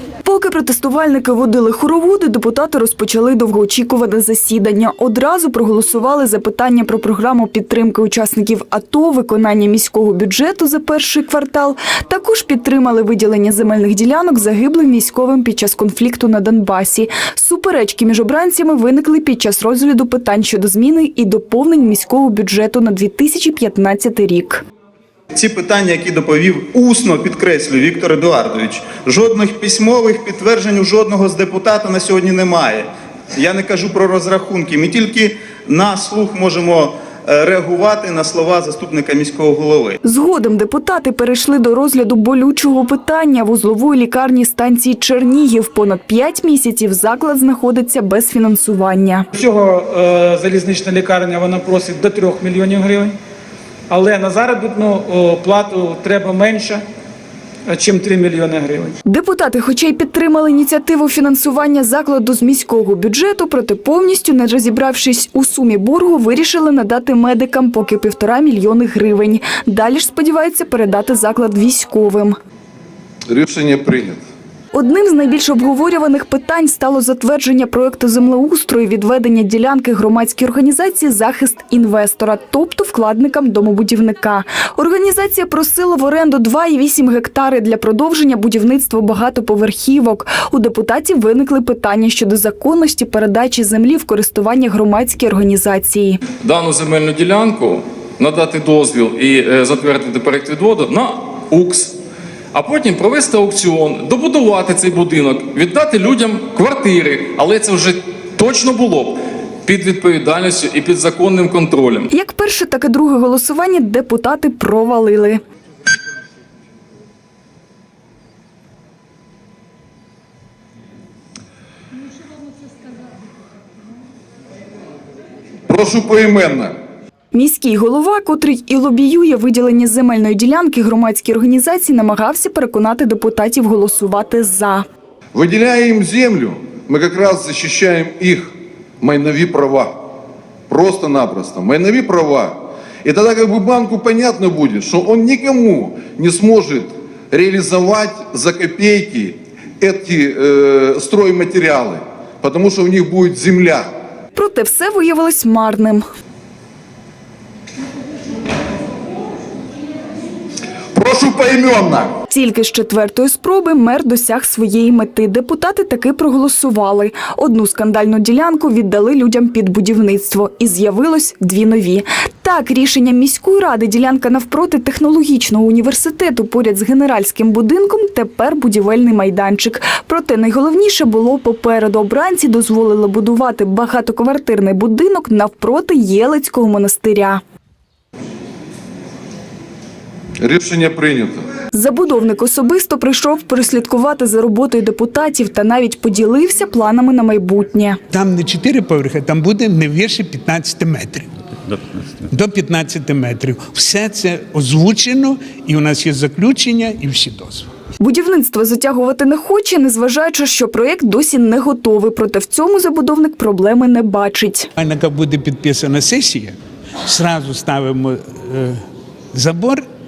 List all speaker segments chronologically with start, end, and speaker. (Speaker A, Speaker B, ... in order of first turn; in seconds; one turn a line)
Speaker A: 0.2-24.6
Speaker B: 25.3-40.0
Speaker A: 40.0-49.2
Speaker C: 49.4-53.1
Speaker C: 53.9-56.8
Speaker C: 57.7-58.9
Speaker A: 59.0-72.4
Speaker D: 73.3-74.2
Speaker A: 74.7-96.2
Speaker E: 96.4-102.0
Speaker E: 102.5-112.1
Speaker A: 112.1-115.4
Speaker D: 125.7-126.7
Speaker A: 127.3-134.8
Speaker D: 135.3-139.9
Speaker D: 140.7-153.9
Speaker A: 154.3-156.0
Speaker D: 160.9-162.1
Speaker A: 162.3-187.4
Speaker D: 190.4-191.4
Speaker A: 191.7-198.0
Speaker F: 198.1-207.7
Speaker A: 208.0-214.7
Speaker F: 214.8-218.8
Speaker F: 219.3-219.8